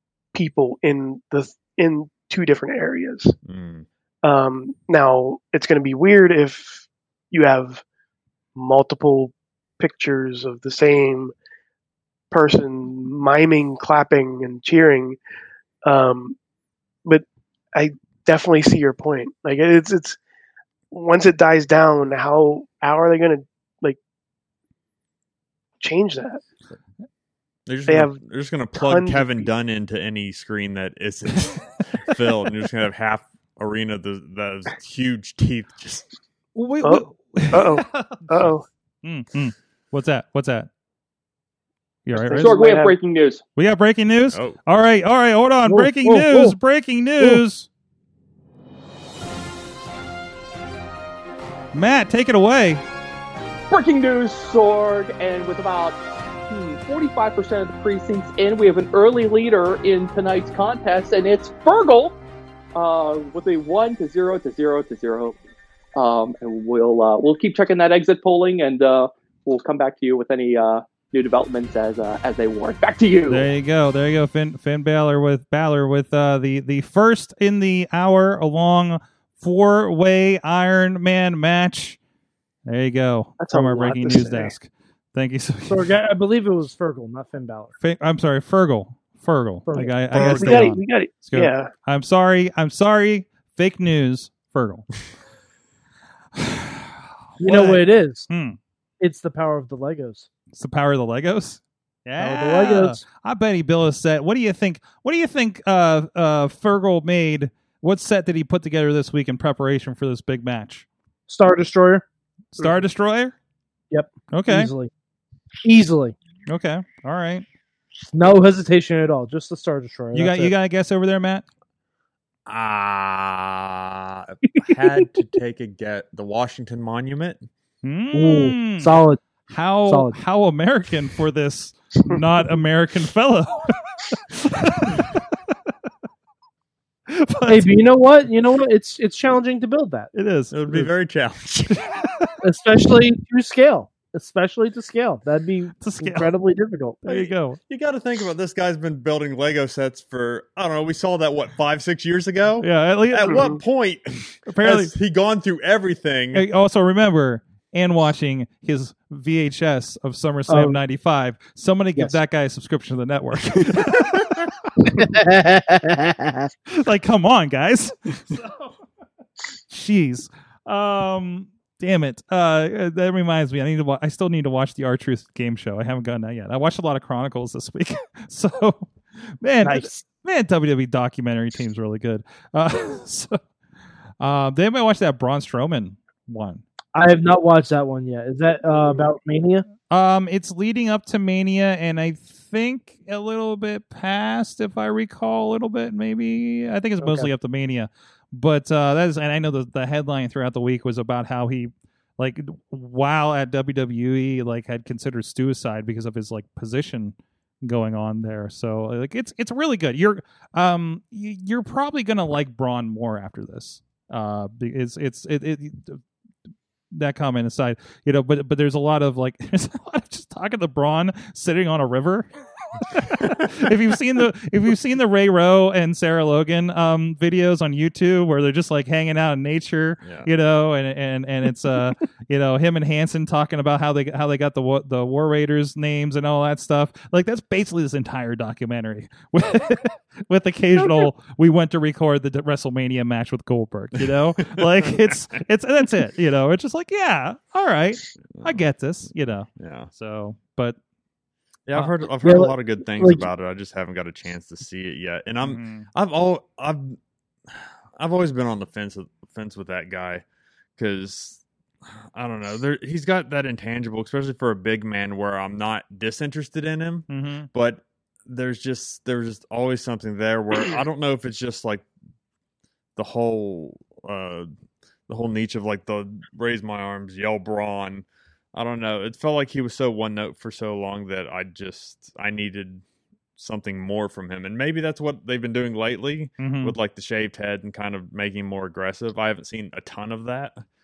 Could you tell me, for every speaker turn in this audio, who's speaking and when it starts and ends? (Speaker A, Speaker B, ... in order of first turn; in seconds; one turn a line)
Speaker A: 0.3-3.4
Speaker B: 3.4-3.9
Speaker A: 4.2-7.8
Speaker A: 8.5-11.3
Speaker A: 12.3-15.2
Speaker A: 15.8-16.4
Speaker A: 17.0-20.2
Speaker A: 20.9-24.0
Speaker A: 25.8-26.4
Speaker B: 27.6-36.1
Speaker A: 27.9-28.2
Speaker A: 28.7-29.5
Speaker C: 36.5-38.4
Speaker A: 36.8-38.6
Speaker C: 39.0-40.7
Speaker C: 42.0-42.5
Speaker A: 42.1-42.9
Speaker D: 42.3-43.4
Speaker C: 43.5-47.7
Speaker B: 44.3-44.6
Speaker E: 45.6-46.6
Speaker E: 47.2-47.4
Speaker C: 51.7-52.8
Speaker D: 53.7-56.0
Speaker D: 56.5-62.2
Speaker D: 62.7-65.4
Speaker D: 66.0-73.5
Speaker C: 73.3-82.0
Speaker C: 82.7-85.9
Speaker A: 83.4-84.5
Speaker E: 85.7-87.7
Speaker C: 87.8-94.9
Speaker E: 89.7-90.7
Speaker A: 89.8-91.7
Speaker C: 96.3-96.9
Speaker E: 97.4-98.3
Speaker C: 97.4-98.6
Speaker E: 99.0-100.3
Speaker C: 100.5-110.8
Speaker E: 102.2-103.0
Speaker E: 111.3-112.0
Speaker C: 112.5-113.3
Speaker E: 113.9-114.9
Speaker C: 114.3-114.7
Speaker E: 115.6-116.1
Speaker C: 116.5-117.4
Speaker E: 118.1-120.5
Speaker C: 120.1-121.4
Speaker B: 122.5-127.5
Speaker E: 124.7-125.0
Speaker C: 127.8-128.9
Speaker E: 128.1-129.2
Speaker C: 129.5-133.7
Speaker E: 129.8-130.2
Speaker C: 134.3-135.1
Speaker C: 137.1-137.8
Speaker E: 137.5-140.1
Speaker C: 140.1-140.9
Speaker B: 140.5-141.8
Speaker C: 141.7-142.3
Speaker E: 142.4-147.0
Speaker C: 145.8-146.3
Speaker C: 147.1-147.6
Speaker B: 147.1-156.4
Speaker C: 152.6-153.4
Speaker A: 153.2-153.6
Speaker C: 154.5-154.9
Speaker C: 156.3-164.3
Speaker E: 160.5-160.8
Speaker E: 164.9-166.5
Speaker C: 166.7-168.7
Speaker C: 169.7-178.9
Speaker C: 179.4-183.4
Speaker E: 179.6-180.0
Speaker C: 184.2-186.6
Speaker E: 186.9-189.7
Speaker C: 189.9-216.0
Speaker E: 197.0-197.3
Speaker C: 216.9-222.3
Speaker C: 222.9-250.8
Speaker B: 230.0-230.3
Speaker B: 244.0-245.0
Speaker B: 248.3-248.6
Speaker B: 249.6-249.9
Speaker B: 251.7-257.0
Speaker E: 252.2-253.3
Speaker C: 255.4-255.9
Speaker B: 257.5-260.2
Speaker B: 260.8-261.4
Speaker B: 262.1-271.9
Speaker C: 267.1-267.5
Speaker B: 272.9-274.5
Speaker B: 275.1-282.8
Speaker B: 283.4-290.6
Speaker C: 286.4-286.8